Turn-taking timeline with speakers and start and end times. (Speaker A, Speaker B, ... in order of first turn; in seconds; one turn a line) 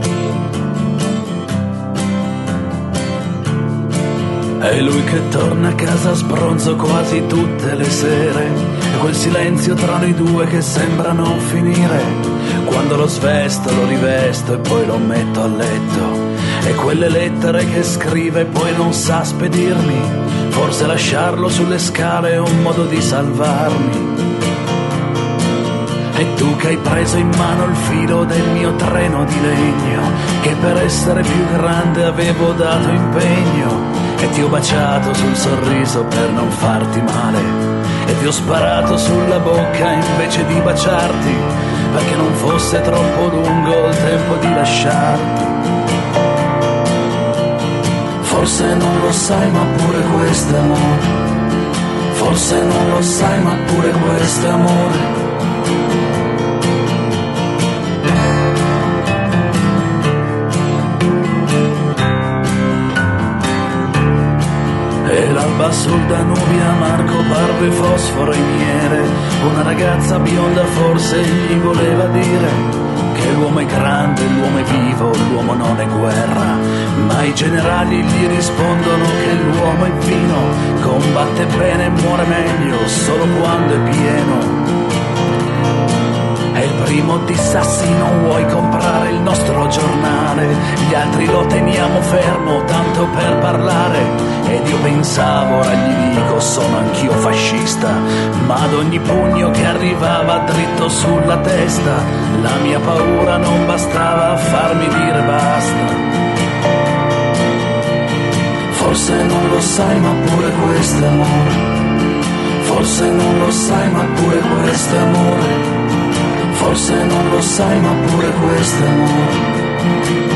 Speaker A: 4.6-24.2
Speaker A: 26.1-45.5
Speaker A: 48.2-51.2
Speaker A: 52.1-55.1
Speaker A: 65.0-84.6
Speaker A: 86.5-106.0
Speaker A: 108.7-111.8
Speaker A: 112.6-115.7
Speaker A: 116.5-119.5